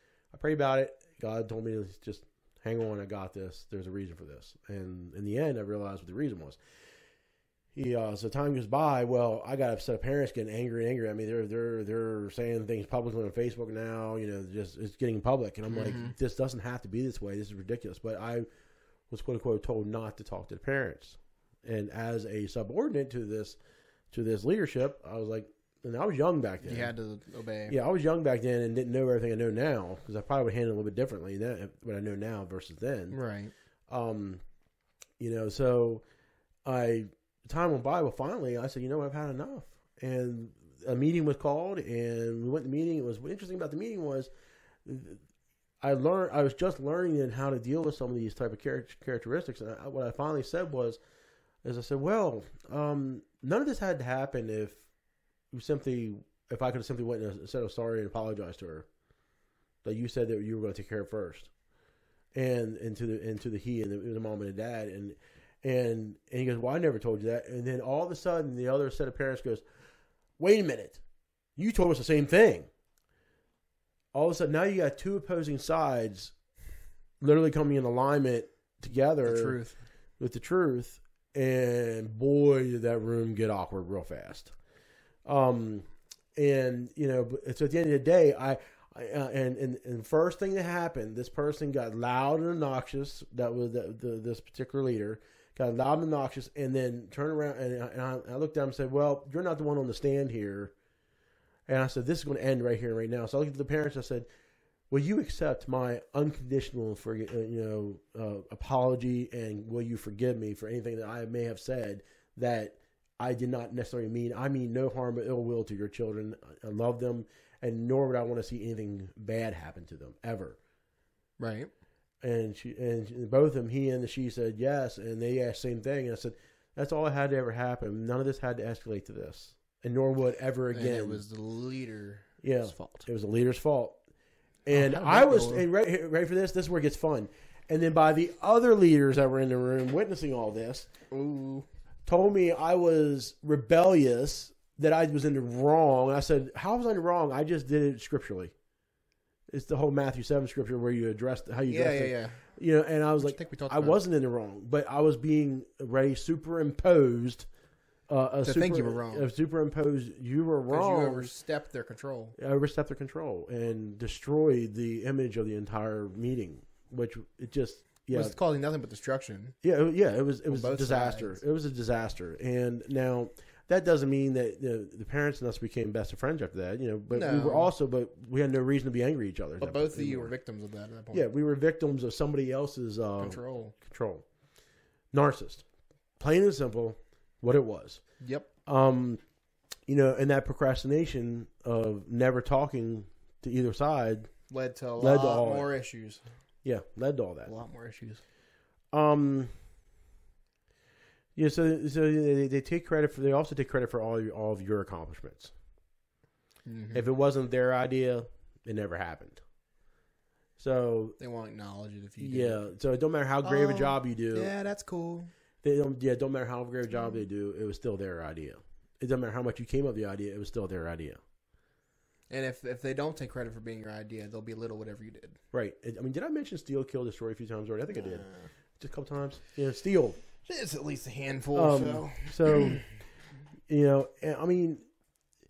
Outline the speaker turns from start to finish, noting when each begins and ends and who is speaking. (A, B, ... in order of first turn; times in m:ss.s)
0:00.3-0:06.6 A
0:07.8-0:18.5 A
0:15.7-0:16.2 B
0:19.1-0:23.6 A
0:24.1-0:26.9 A
0:26.6-0:27.8 B
0:27.7-0:33.2 A
0:33.1-0:33.5 B
0:33.9-0:34.4 A
0:35.2-0:36.0 A
0:36.6-0:44.3 A
0:44.8-0:45.2 A
0:45.8-0:51.0 A
0:51.6-0:54.8 A
0:55.5-0:58.9 A
0:59.8-1:01.5 A
1:02.3-1:09.6 A
1:10.4-1:11.0 A
1:11.6-1:12.7 A
1:14.1-1:16.3 A
1:17.2-1:19.6 A
1:19.2-1:19.8 B
1:20.2-1:24.5 A
1:25.2-1:40.7 A
1:41.7-1:44.3 A
1:44.9-2:00.6 A
2:01.4-2:01.7 B
2:02.2-2:11.2 A
2:10.7-2:13.1 B
2:12.4-2:14.0 A
2:14.7-2:20.9 A
2:14.7-2:15.7 B
2:21.1-2:21.7 B
2:22.1-2:28.5 A
2:29.5-2:37.5 A
2:31.7-2:32.4 B
2:33.2-2:34.0 B
2:38.1-2:41.3 A
2:38.4-2:39.3 B
2:40.7-2:42.4 B
2:42.4-2:48.4 A
2:48.1-2:49.6 B
2:49.6-3:00.3 A
2:50.5-2:51.4 B
2:57.1-2:57.7 B
2:59.6-3:01.3 B
3:01.1-3:04.2 A
3:03.2-3:03.7 B
3:05.1-3:05.6 A
3:06.2-3:08.0 A
3:08.2-3:08.5 B
3:08.7-3:09.2 A
3:09.9-3:14.3 A
3:14.5-3:16.2 B
3:15.0-3:15.7 A
3:16.6-3:17.5 A
3:17.5-3:18.2 B
3:18.9-3:19.5 A
3:21.4-3:25.5 A
3:26.7-3:27.1 B
3:26.9-3:29.4 A
3:30.6-3:31.2 A
3:31.2-3:32.6 B
3:32.2-3:34.5 A
3:33.4-3:35.3 B
3:35.6-3:41.2 A
3:42.3-3:45.4 B
3:45.5-3:48.3 A
3:47.9-3:48.5 B
3:48.8-3:50.2 A
3:50.4-3:52.8 B
3:51.5-3:52.8 A
3:53.7-3:54.8 A